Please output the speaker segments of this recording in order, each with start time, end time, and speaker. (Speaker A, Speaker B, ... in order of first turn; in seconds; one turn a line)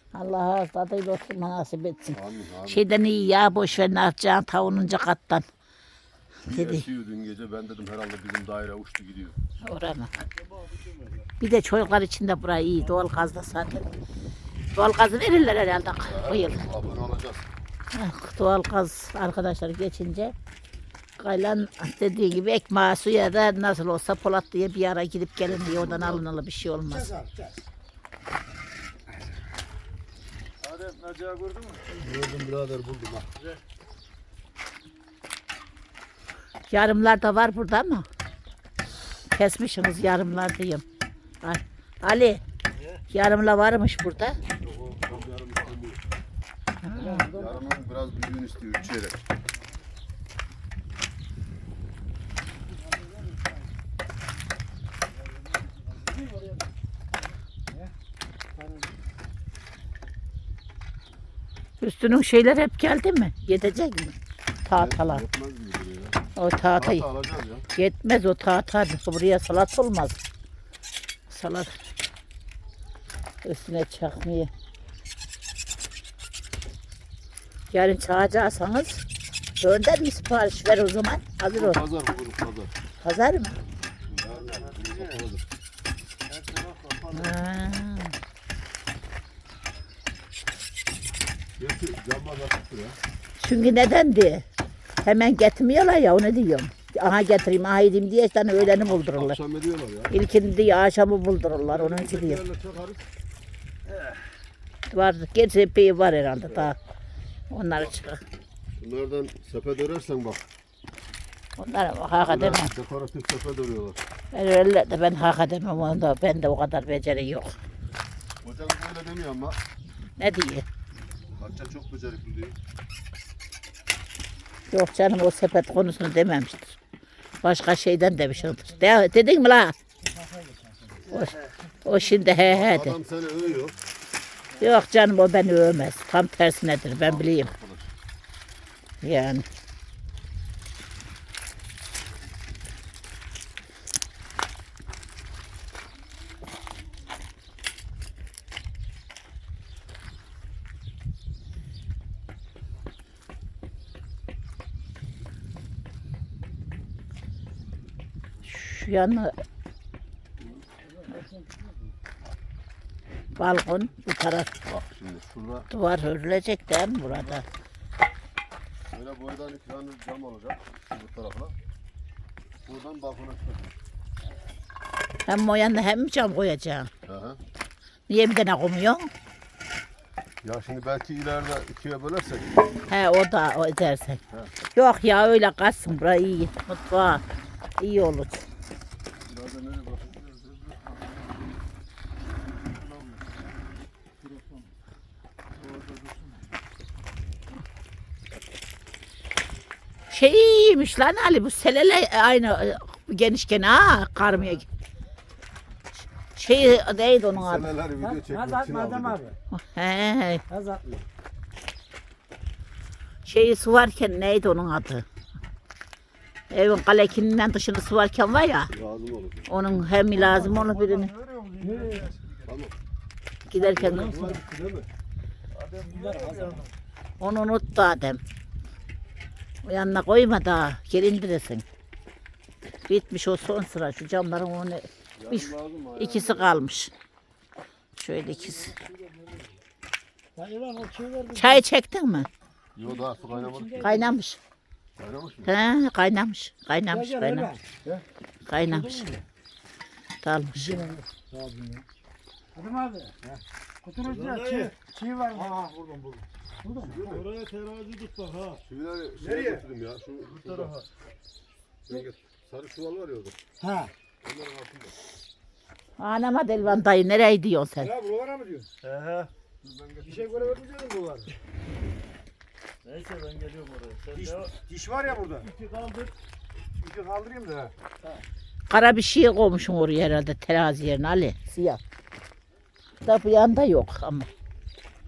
Speaker A: 0.1-5.4
Speaker B: 2.1-2.8
Speaker B: 6.5-9.3
Speaker A: 6.5-6.8
Speaker A: 9.6-10.1
Speaker C: 10.4-11.3
Speaker A: 11.4-13.9
Speaker A: 14.7-16.6
Speaker B: 16.1-17.5
Speaker A: 17.9-20.3
Speaker A: 21.2-27.1
Speaker B: 25.4-26.3
Speaker D: 26.9-27.7
Speaker C: 30.6-31.9
Speaker B: 31.9-33.3
Speaker A: 36.7-38.0
Speaker A: 39.3-40.8
Speaker A: 41.4-42.4
Speaker A: 43.1-44.4
Speaker B: 44.6-46.0
Speaker A: 46.8-47.3
Speaker D: 46.9-47.6
Speaker B: 47.3-49.2
Speaker D: 58.5-58.9
Speaker A: 61.8-65.2
Speaker B: 64.7-66.2
Speaker A: 66.3-67.0
Speaker B: 66.7-67.7
Speaker A: 67.7-70.2
Speaker A: 71.3-71.8
Speaker A: 73.4-74.5
Speaker A: 77.7-79.0
Speaker A: 79.6-81.8
Speaker B: 81.5-82.7
Speaker A: 83.0-83.6
Speaker B: 84.1-85.4
Speaker C: 84.2-85.2
Speaker C: 86.3-87.3
Speaker A: 87.1-88.1
Speaker B: 91.6-93.0
Speaker A: 93.4-94.4
Speaker A: 95.0-99.4
Speaker B: 98.6-100.1
Speaker A: 100.1-102.4
Speaker B: 101.6-103.0
Speaker A: 104.9-106.8
Speaker A: 107.5-108.2
Speaker B: 108.8-110.5
Speaker A: 111.6-112.7
Speaker B: 112.2-114.0
Speaker A: 114.3-117.6
Speaker B: 118.4-119.6
Speaker A: 120.2-120.7
Speaker B: 121.3-122.5
Speaker A: 124.7-126.8
Speaker A: 127.4-129.8
Speaker D: 130.0-131.2
Speaker A: 131.1-132.9
Speaker B: 132.5-133.8
Speaker A: 134.6-137.5
Speaker B: 137.0-137.9
Speaker A: 139.0-139.4
Speaker A: 158.4-159.3
Speaker A: 163.4-164.5
Speaker B: 164.7-165.7
Speaker A: 165.7-167.4
Speaker B: 168.9-171.6
Speaker B: 172.6-173.7
Speaker A: 175.2-176.9
Speaker B: 177.1-177.4
Speaker A: 178.1-179.1
Speaker B: 180.4-182.6
Speaker A: 182.9-184.2
Speaker A: 184.7-187.2
Speaker A: 187.8-188.4
Speaker B: 189.3-190.3
Speaker C: 190.3-190.8
Speaker C: 192.9-193.2
Speaker C: 194.2-194.6
Speaker C: 195.6-196.4
Speaker A: 200.1-204.6
Speaker A: 206.3-207.7
Speaker B: 207.3-209.2
Speaker D: 208.0-209.3
Speaker A: 209.5-210.4
Speaker D: 210.5-210.8
Speaker A: 213.2-215.0
Speaker A: 216.5-218.7
Speaker B: 218.7-219.7
Speaker A: 219.5-221.1
Speaker C: 220.2-222.5
Speaker D: 221.6-222.1
Speaker B: 222.4-222.7
Speaker A: 223.5-224.3
Speaker B: 223.5-224.9
Speaker D: 223.8-224.3
Speaker C: 225.5-226.7
Speaker D: 225.9-226.6
Speaker A: 227.2-228.2
Speaker A: 229.6-231.6
Speaker A: 232.9-236.9
Speaker B: 235.2-236.6
Speaker A: 237.9-238.7
Speaker D: 238.4-239.6
Speaker D: 240.3-241.6
Speaker A: 241.3-242.3
Speaker B: 242.8-244.1
Speaker D: 242.8-244.0
Speaker A: 243.8-244.4
Speaker B: 245.0-245.5
Speaker A: 245.4-247.5
Speaker D: 246.9-248.0
Speaker A: 248.5-249.1
Speaker D: 248.7-249.2
Speaker A: 250.2-250.8
Speaker D: 250.6-251.8
Speaker D: 252.5-255.8
Speaker C: 254.0-254.7
Speaker C: 255.3-256.2
Speaker D: 256.6-257.2
Speaker B: 256.8-257.3
Speaker C: 256.8-258.6
Speaker B: 258.6-260.8
Speaker D: 259.2-259.6
Speaker C: 260.4-260.9
Speaker B: 261.9-263.4
Speaker D: 263.6-263.9
Speaker B: 264.2-264.9
Speaker A: 266.0-267.9
Speaker D: 267.8-268.7
Speaker C: 268.8-269.3
Speaker B: 269.6-270.7
Speaker D: 270.0-271.3
Speaker C: 272.8-274.5
Speaker D: 274.1-275.5
Speaker C: 275.1-276.1
Speaker D: 276.8-277.7
Speaker A: 278.7-281.8
Speaker A: 283.0-284.3